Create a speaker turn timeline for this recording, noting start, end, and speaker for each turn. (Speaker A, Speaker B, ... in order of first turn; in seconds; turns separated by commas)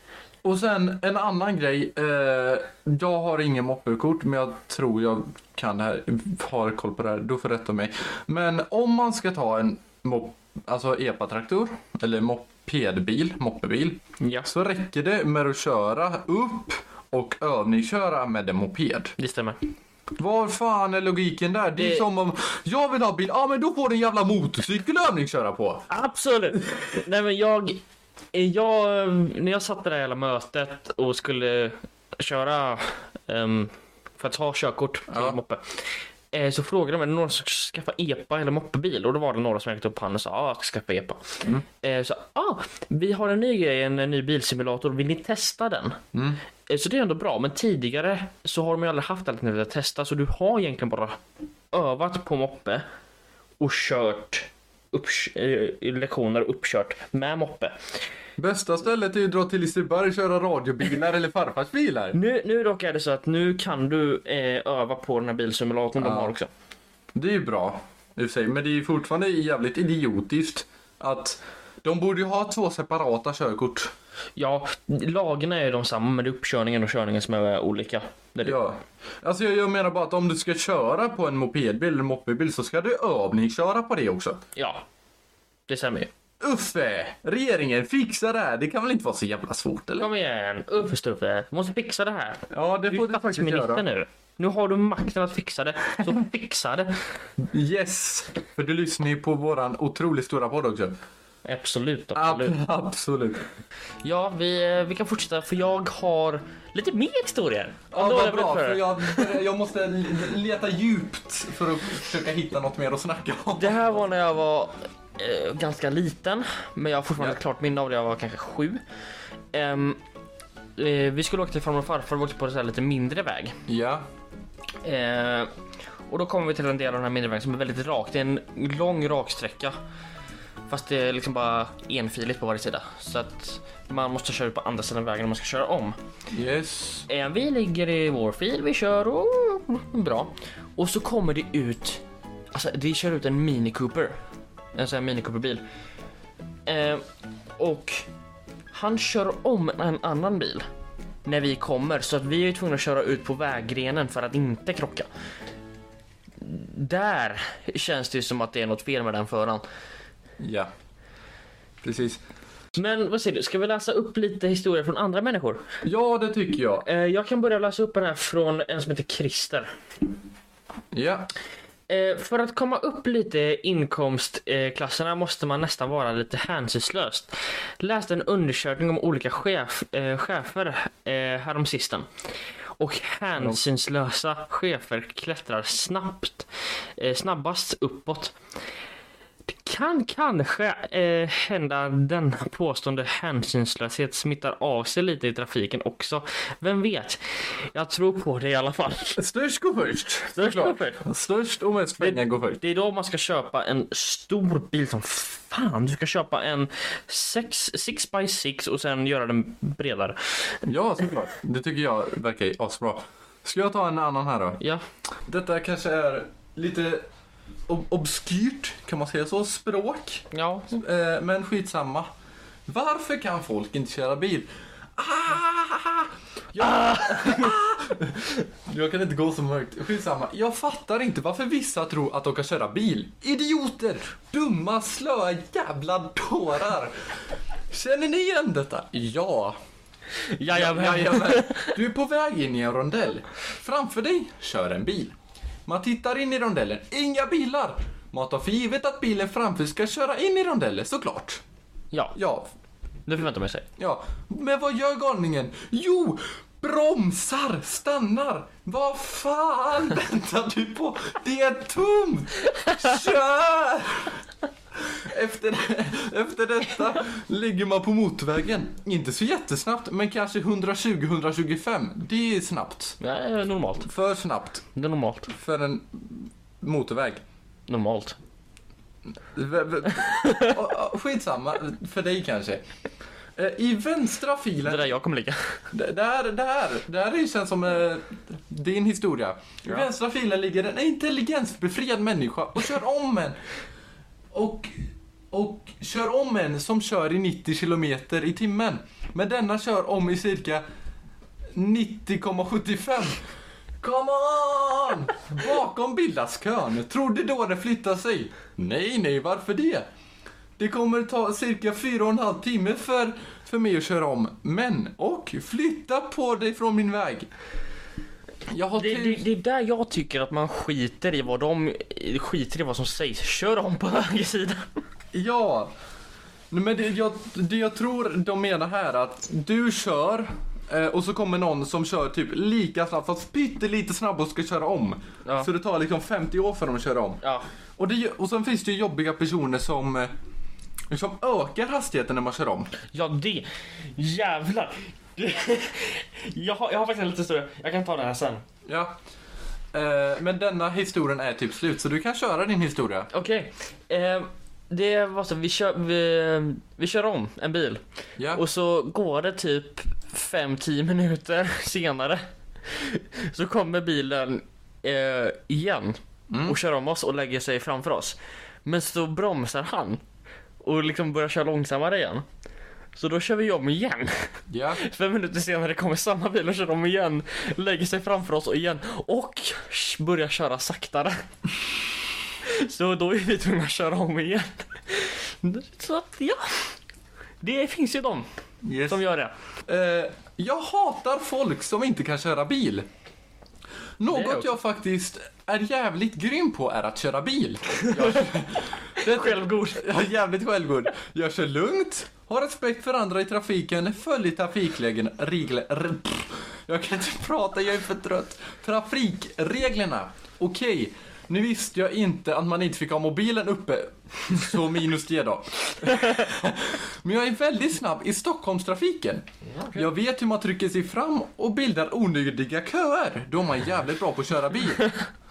Speaker A: 0.4-19.1, Speaker B: 14.2-14.5, Speaker B: 19.2-19.6, Speaker A: 20.1-25.8, Speaker B: 21.8-22.0, Speaker B: 25.9-27.8, Speaker A: 26.5-26.9, Speaker B: 28.3-46.0, Speaker A: 35.1-35.4, Speaker A: 46.1-46.4, Speaker B: 46.7-51.2, Speaker B: 51.7-52.9, Speaker B: 53.6-58.0, Speaker A: 58.4-62.2, Speaker B: 62.1-66.5, Speaker A: 66.0-66.3, Speaker A: 67.1-73.9, Speaker B: 74.4-78.6, Speaker A: 78.4-84.4, Speaker B: 84.5-84.8, Speaker B: 85.7-86.1, Speaker A: 86.4-90.1, Speaker B: 90.0-97.0, Speaker A: 92.5-93.8, Speaker A: 97.4-101.0, Speaker B: 101.5-102.5, Speaker A: 102.1-103.5, Speaker B: 104.0-109.3, Speaker A: 107.9-113.8, Speaker B: 113.5-118.8, Speaker B: 119.5-120.0, Speaker B: 120.8-123.5, Speaker A: 123.7-124.0, Speaker B: 124.8-125.5, Speaker B: 126.1-129.7, Speaker B: 130.7-135.9, Speaker A: 136.3-137.1, Speaker B: 137.1-144.2, Speaker B: 144.7-145.6, Speaker B: 146.7-147.0, Speaker B: 147.6-148.1, Speaker B: 148.7-150.7, Speaker B: 151.2-155.1, Speaker B: 156.4-159.6, Speaker A: 160.4-160.7, Speaker A: 161.8-162.2, Speaker B: 162.7-165.6, Speaker A: 165.8-166.8, Speaker B: 166.8-169.7, Speaker A: 170.9-171.3, Speaker B: 171.9-182.1, Speaker B: 182.8-188.3, Speaker B: 189.6-199.2, Speaker A: 199.2-202.6, Speaker B: 200.3-201.0, Speaker B: 202.0-210.6, Speaker A: 210.6-214.6, Speaker B: 214.6-214.8, Speaker A: 215.2-217.0, Speaker A: 217.7-222.1, Speaker B: 220.3-220.7, Speaker A: 222.7-237.1, Speaker B: 226.6-227.5, Speaker A: 237.7-239.6, Speaker B: 240.2-241.8, Speaker A: 240.5-251.4, Speaker A: 252.1-252.5, Speaker B: 253.1-253.7, Speaker A: 253.8-264.2, Speaker A: 264.8-272.9, Speaker B: 273.0-273.9, Speaker A: 273.8-274.6, Speaker B: 274.7-275.3, Speaker A: 275.3-277.2, Speaker B: 277.7-278.2, Speaker A: 279.3-282.6, Speaker B: 280.1-280.5, Speaker A: 283.4-284.9, Speaker B: 284.6-285.6, Speaker A: 285.7-293.4, Speaker A: 294.3-300.6, Speaker A: 301.5-303.2, Speaker A: 303.8-309.9, Speaker A: 310.6-317.3, Speaker A: 318.5-319.2, Speaker B: 318.8-324.7, Speaker A: 325.1-325.7, Speaker A: 326.5-337.2, Speaker B: 335.2-335.5, Speaker A: 337.8-340.1, Speaker A: 340.9-342.7, Speaker B: 342.9-348.4, Speaker A: 348.6-348.9, Speaker A: 349.7-353.1, Speaker B: 353.1-370.0, Speaker A: 358.2-358.4, Speaker A: 366.3-366.6, Speaker B: 370.6-372.2, Speaker B: 372.9-381.2, Speaker A: 374.5-374.8, Speaker B: 382.4-386.7, Speaker B: 387.4-388.3, Speaker A: 388.6-389.0, Speaker B: 388.9-389.3, Speaker A: 389.6-392.9, Speaker A: 394.0-425.0, Speaker B: 394.1-394.5, Speaker B: 397.8-398.4, Speaker B: 399.0-399.9, Speaker B: 419.5-419.9